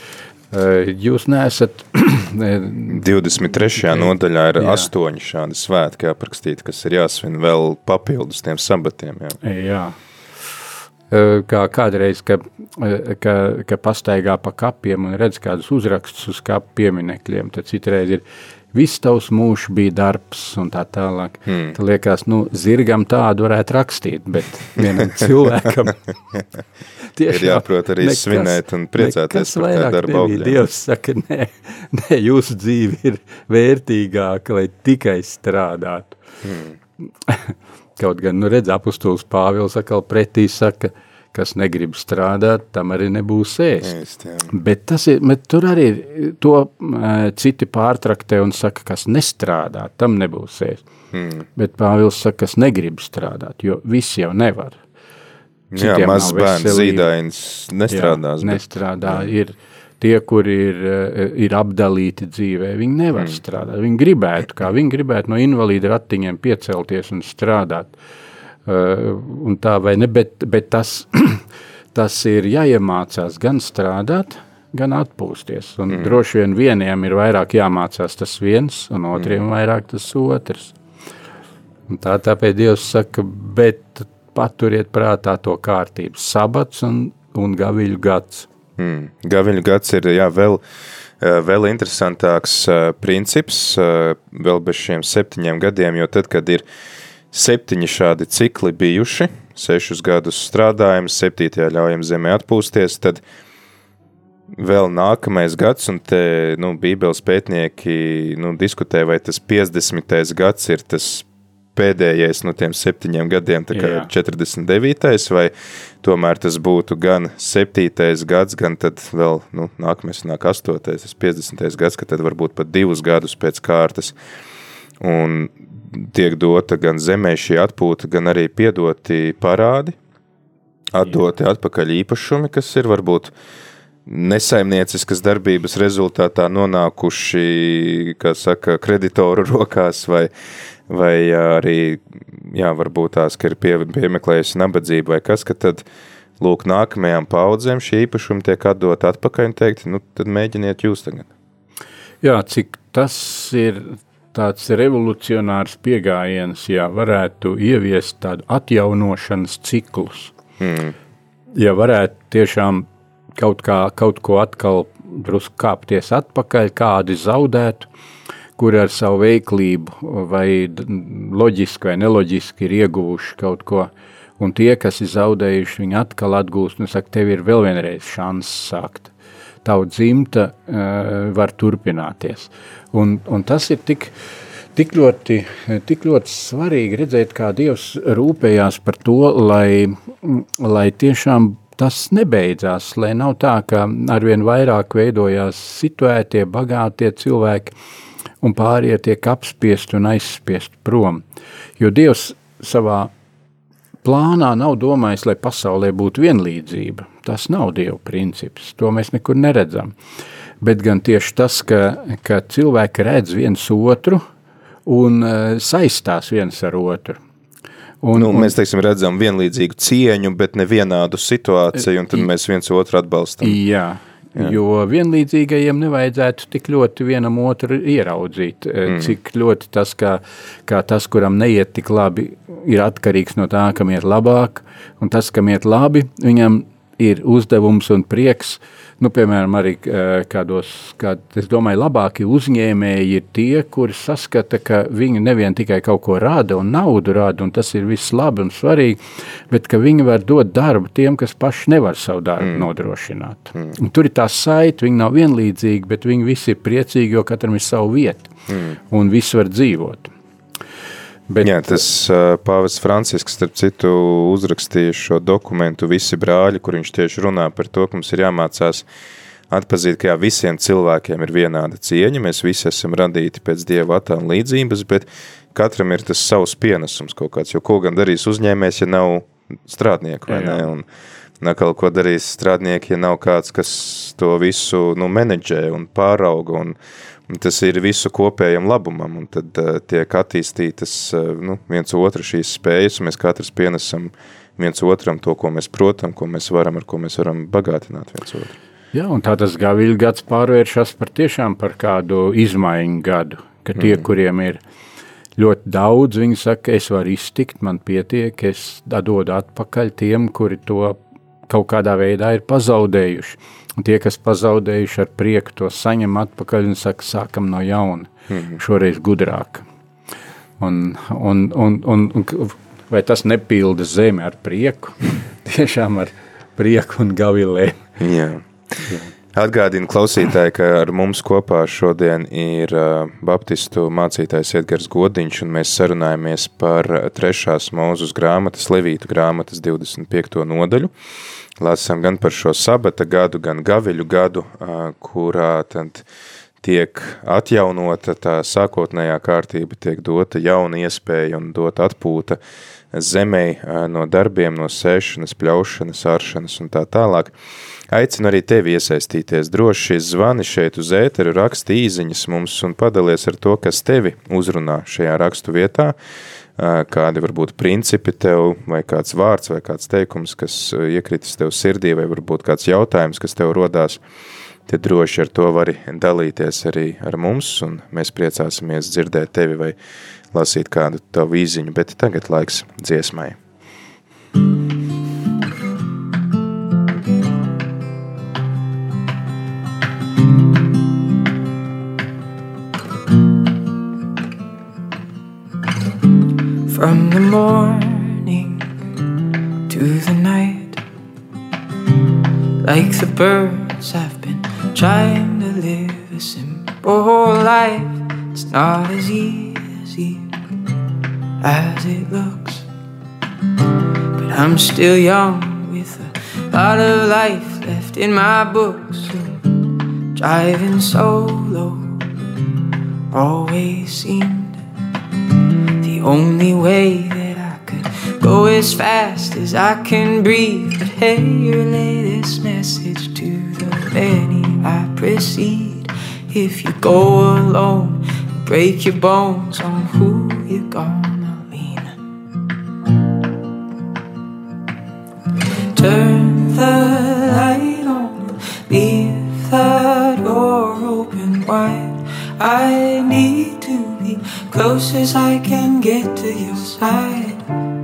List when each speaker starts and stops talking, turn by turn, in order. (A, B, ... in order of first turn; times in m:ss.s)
0:00.5-0:03.0 A
0:02.9-0:09.4 B
0:03.9-0:04.9 A
0:09.4-0:10.0 A
0:11.1-0:26.0 A
0:21.5-0:21.8 B
0:27.1-0:36.2 A
0:27.3-0:30.6 B
0:36.4-0:36.8 B
0:37.3-0:44.0 A
0:43.8-0:44.5 B
0:44.5-0:50.8 A
0:51.1-0:51.5 B
0:51.6-0:54.8 A
0:55.7-0:59.3 B
0:55.8-0:57.1 A
0:57.9-1:08.0 A
1:08.7-1:20.8 A
1:15.9-1:16.2 B
1:21.9-1:28.5 A
1:28.8-1:30.6 B
1:31.2-1:36.6 B
1:37.3-1:43.2 B
1:44.5-2:04.2 B
1:53.7-1:54.1 A
2:05.0-2:10.0 B
2:10.9-2:13.3 B
2:14.1-2:20.3 B
2:20.9-2:25.8 B
2:26.4-2:31.3 B
2:32.2-2:40.3 A
2:40.6-2:41.0 B
2:41.6-2:47.9 A
2:48.6-2:59.1 A
2:59.6-3:04.1 A
3:04.8-3:17.8 A
3:18.4-3:21.2 A
3:21.8-3:23.1 A
3:24.0-3:29.9 A
3:30.6-3:34.2 A
3:34.9-3:37.2 A
3:38.0-3:38.5 A
3:38.1-3:43.6 B
3:43.4-4:09.0 A
3:48.9-3:49.2 B
4:09.5-4:18.3 A
4:12.4-4:12.7 B
4:18.5-4:18.8 B
4:18.9-4:20.1 A
4:21.3-4:21.8 A
4:21.4-4:28.9 B
4:29.5-4:40.9 B
4:40.3-4:40.7 A
4:41.4-4:46.8 B
4:47.3-4:58.6 B
4:58.9-5:04.6 A
5:03.8-5:04.0 B
5:05.4-5:11.0 A
5:11.5-5:19.6 A
5:18.3-5:18.6 B
5:20.6-5:27.9 A
5:28.0-5:28.5 B
5:28.9-5:29.1 A
5:29.3-5:40.9 B
5:41.6-5:46.0 B
5:46.6-5:52.4 B
5:52.9-5:57.4 B
5:57.9-6:06.0 B
6:06.6-6:14.0 B
6:14.7-6:19.8 B
6:20.3-6:23.4 B
6:36.7-6:38.7 C
6:39.7-6:40.8 C
6:42.6-6:50.4 C
6:51.4-6:52.7 C
6:54.2-6:59.6 C
7:00.2-7:02.1 C
7:03.1-7:04.6 C
7:05.8-7:22.0 C
7:25.7-7:37.5 C